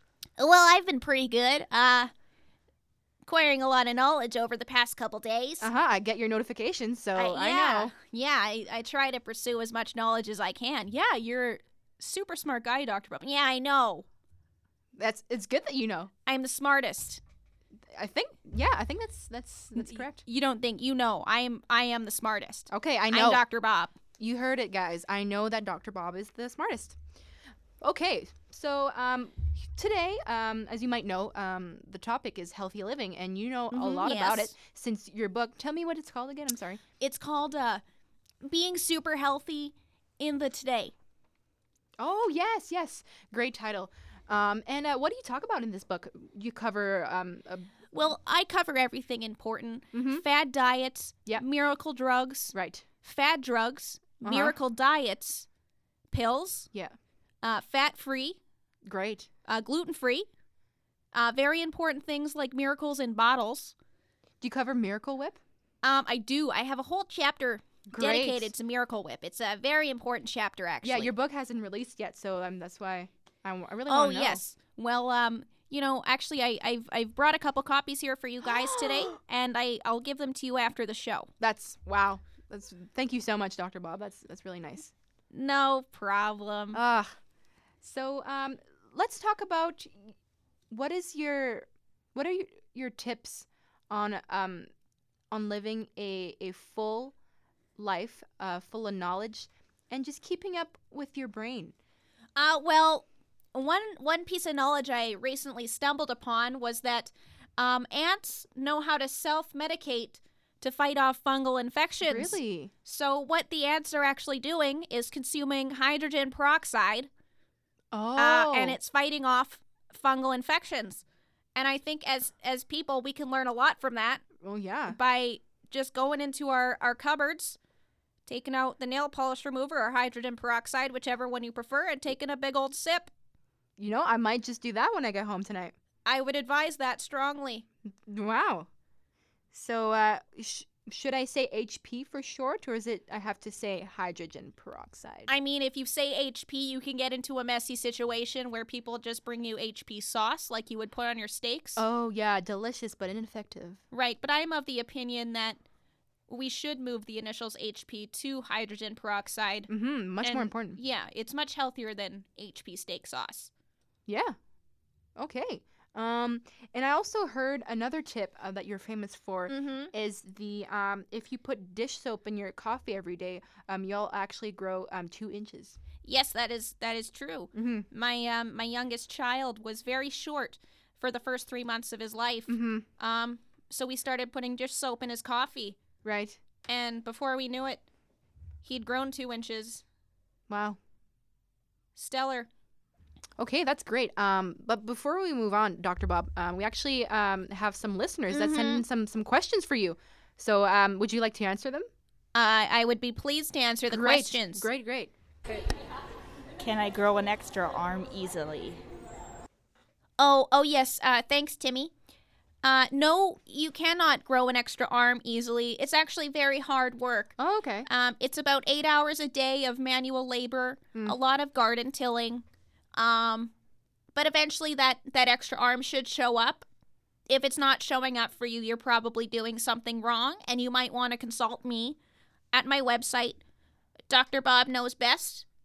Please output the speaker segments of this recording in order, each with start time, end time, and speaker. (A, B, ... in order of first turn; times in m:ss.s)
0:00.4-0:02.1 A
0:03.2-0:05.6 A
0:05.6-0:07.9 B
0:07.2-0:11.5 A
0:10.9-0:13.2 C
0:13.0-0:14.0 A
0:15.0-0:16.1 B
0:16.3-0:17.2 A
0:17.9-0:20.2 B
0:20.3-0:22.6 A
0:22.7-0:23.4 B
0:23.1-0:23.9 A
0:24.2-0:27.0 B
0:27.8-0:36.8 B
0:33.8-0:34.5 A
0:37.0-0:37.8 A
0:38.4-0:40.9 A
0:42.0-0:47.7 B
0:47.9-0:52.5 A
0:49.9-0:50.2 B
0:52.5-0:52.9 B
0:53.0-0:55.4 A
0:54.2-0:54.6 B
0:56.1-0:56.6 A
0:57.4-0:58.4 A
0:58.8-0:59.3 B
0:59.5-1:00.3 A
1:01.1-1:03.7 A
1:04.4-1:05.4 B
1:05.8-1:11.0 A
1:07.9-1:08.5 B
1:10.8-1:14.4 B
1:13.9-1:21.3 A
1:18.4-1:19.1 B
1:21.4-1:24.9 B
1:25.3-1:26.8 A
1:26.7-1:27.2 B
1:27.8-1:30.1 B
1:30.7-1:34.7 B
1:35.3-1:37.1 B
1:37.8-1:41.7 B
1:42.4-1:52.2 A
1:52.0-1:52.7 B
1:52.8-1:57.1 A
1:57.9-1:58.8 B
1:58.2-2:01.0 A
2:01.6-2:04.2 A
2:04.4-2:05.0 B
2:04.9-2:07.6 A
2:08.3-2:13.1 A
2:13.8-2:15.7 B
2:16.1-2:17.6 A
2:18.0-2:18.7 B
2:19.5-2:25.3 B
2:25.3-2:31.7 A
2:31.8-2:33.8 B
2:33.9-2:35.6 A
2:36.3-2:39.6 A
2:39.7-2:40.8 B
2:40.8-2:43.5 A
2:44.1-2:44.4 B
2:45.2-2:55.8 B
2:56.0-3:02.4 A
2:57.5-2:57.9 B
3:02.5-3:02.9 B
3:03.0-3:05.7 A
3:06.0-3:06.4 B
3:06.7-3:07.8 A
3:08.6-3:09.8 A
3:10.5-3:10.8 B
3:12.0-3:12.4 A
3:13.4-3:21.9 B
3:22.4-3:24.5 A
3:23.9-3:25.1 B
3:26.6-3:28.8 D
3:30.2-3:31.9 A
3:32.6-3:37.3 A
3:37.4-3:37.9 B
3:37.9-3:42.4 A
3:43.0-3:43.4 A
3:44.2-3:46.5 A
3:47.3-3:50.5 A